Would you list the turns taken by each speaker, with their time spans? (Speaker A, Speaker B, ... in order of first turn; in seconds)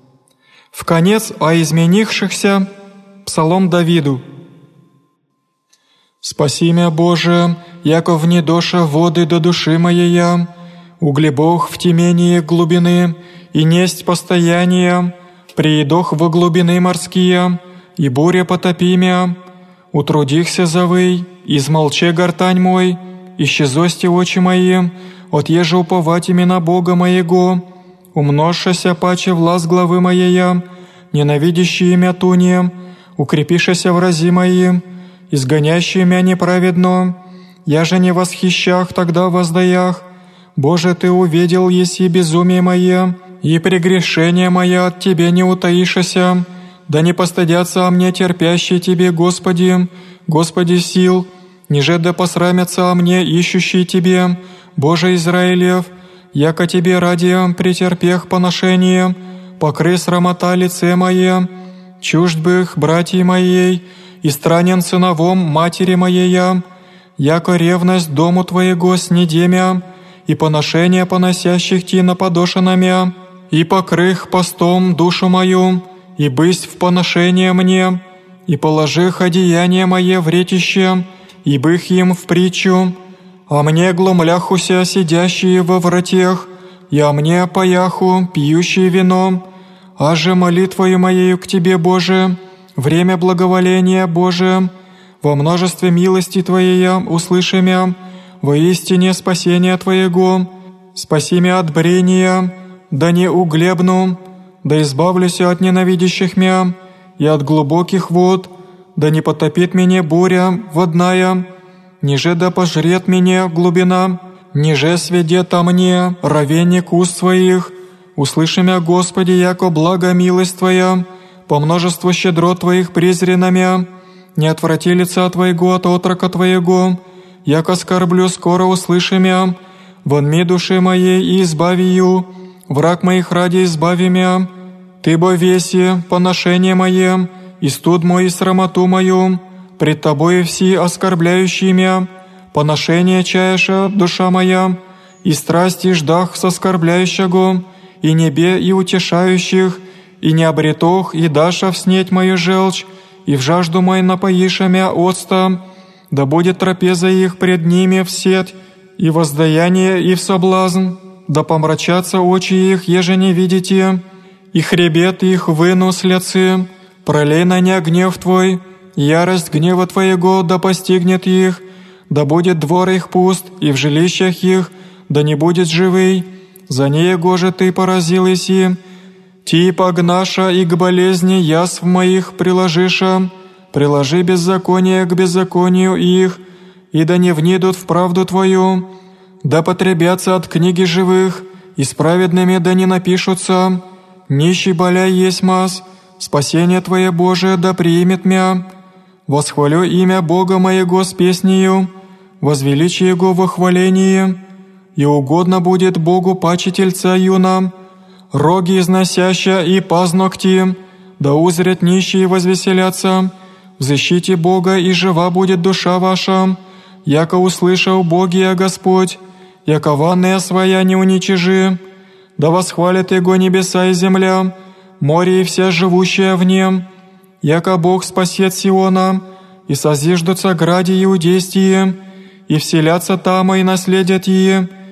Speaker A: 0.7-2.7, 3.2-4.2, 6.2-10.5, 11.0-19.4, 19.9-66.6, 67.2-83.0, 83.5-89.5, 90.0-111.5, 112.0-178.8, 179.4-186.4, 186.9-188.9, 189.4-198.7, 199.3-204.4, 205.0-207.7, 208.3-221.8, 222.4-226.9, 227.4-234.7